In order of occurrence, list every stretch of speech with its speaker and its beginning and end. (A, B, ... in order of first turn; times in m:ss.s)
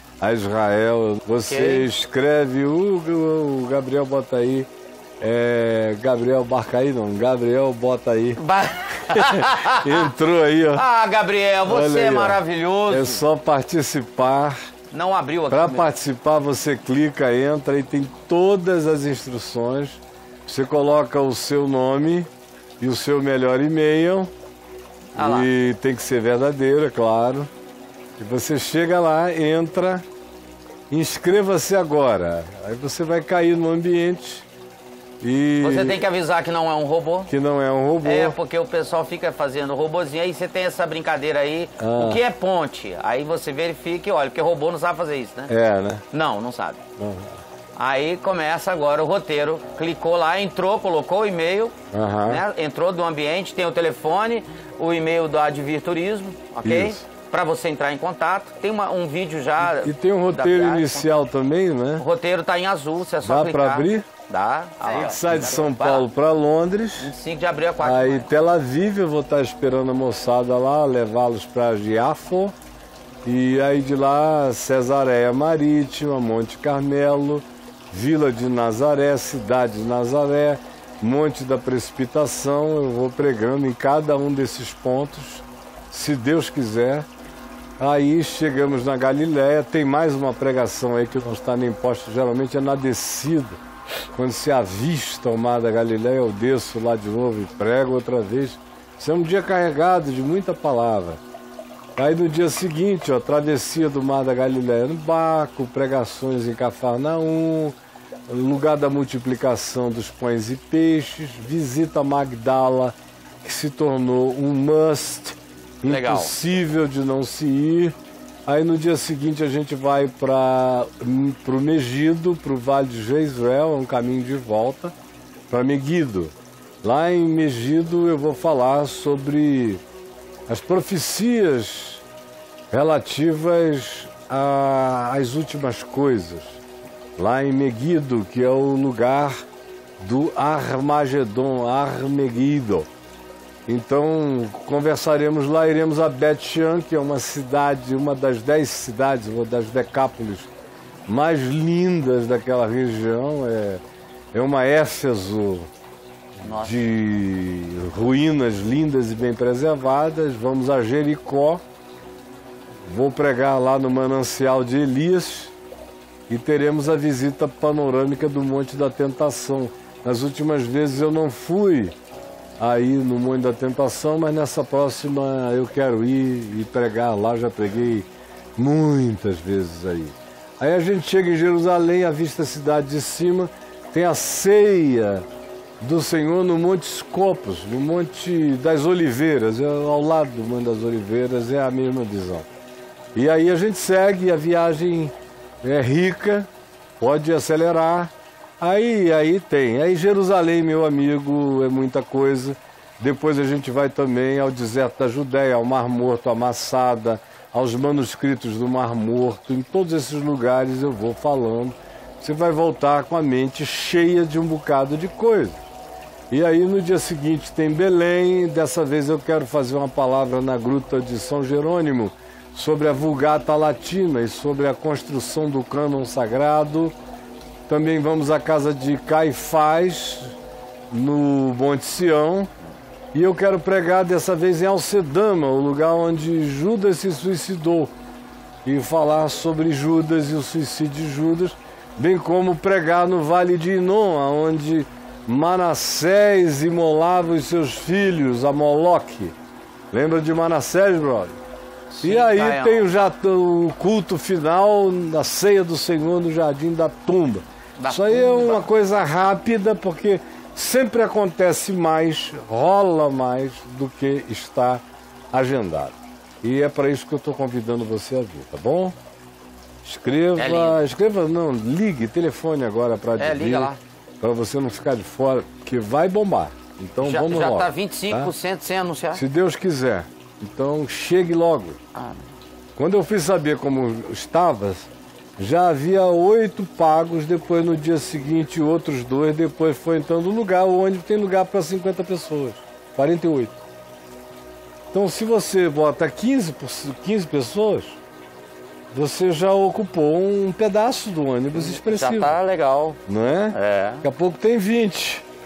0:00.2-0:04.7 A
0:01.4-0:01.9 B
0:05.2-0:08.4 A
0:08.4-0:10.1 B
0:09.0-0:10.8 A
0:10.7-0:13.2 B
0:11.6-0:14.6 A
0:14.9-0:15.9 B
0:15.5-0:22.3 A
0:22.8-0:24.3 A
0:25.2-0:25.5 B
0:25.2-0:27.5 A
0:28.2-0:30.0 A
0:30.9-0:34.5 A
0:35.2-0:36.0 A
0:35.6-0:37.3 B
0:37.3-0:38.4 A
0:38.0-0:45.5 B
0:41.8-0:42.2 A
0:45.5-0:46.0 A
0:46.1-0:46.8 B
0:47.0-0:47.4 A
0:47.8-1:01.2 B
0:51.9-0:52.4 A
0:56.6-0:57.0 A
0:59.6-1:02.0 A
1:02.0-1:06.1 B
1:03.2-1:04.1 A
1:04.9-1:07.1 A
1:07.0-1:08.3 B
1:07.8-1:12.5 A
1:13.2-1:27.0 A
1:27.8-1:33.6 A
1:34.1-1:41.2 A
1:42.0-1:47.8 A
1:48.3-1:57.9 A
1:55.8-1:56.3 B
1:58.4-2:04.9 A
2:05.5-2:09.8 A
2:10.5-2:12.0 A
2:12.7-2:16.6 A
2:17.2-2:19.4 A
2:20.0-2:22.9 A
2:23.7-2:30.5 A
2:31.1-2:33.8 A
2:34.3-2:35.7 A
2:36.4-2:36.8 B
2:36.4-2:41.6 A
2:42.8-2:45.5 A
2:46.3-2:51.9 A
2:52.6-3:05.2 A
3:05.8-3:12.5 A
3:13.1-3:16.5 A
3:17.0-3:35.6 A
3:36.3-3:46.9 A
3:47.7-3:50.4 A
3:50.9-3:52.5 A
3:53.1-3:57.9 A
3:58.6-4:09.3 A
4:09.9-4:11.4 A
4:11.9-4:12.9 B
4:12.0-4:28.9 A
4:17.8-4:18.7 B
4:29.8-4:38.3 A
4:30.3-4:30.8 B
4:33.2-4:33.8 B
4:37.0-4:39.2 B
4:39.1-4:41.8 A
4:41.9-4:42.2 B
4:42.8-4:53.6 A
4:54.9-4:58.0 A
4:58.9-5:02.4 A
5:01.5-5:03.0 B
5:03.1-5:05.2 A
5:03.5-5:04.0 B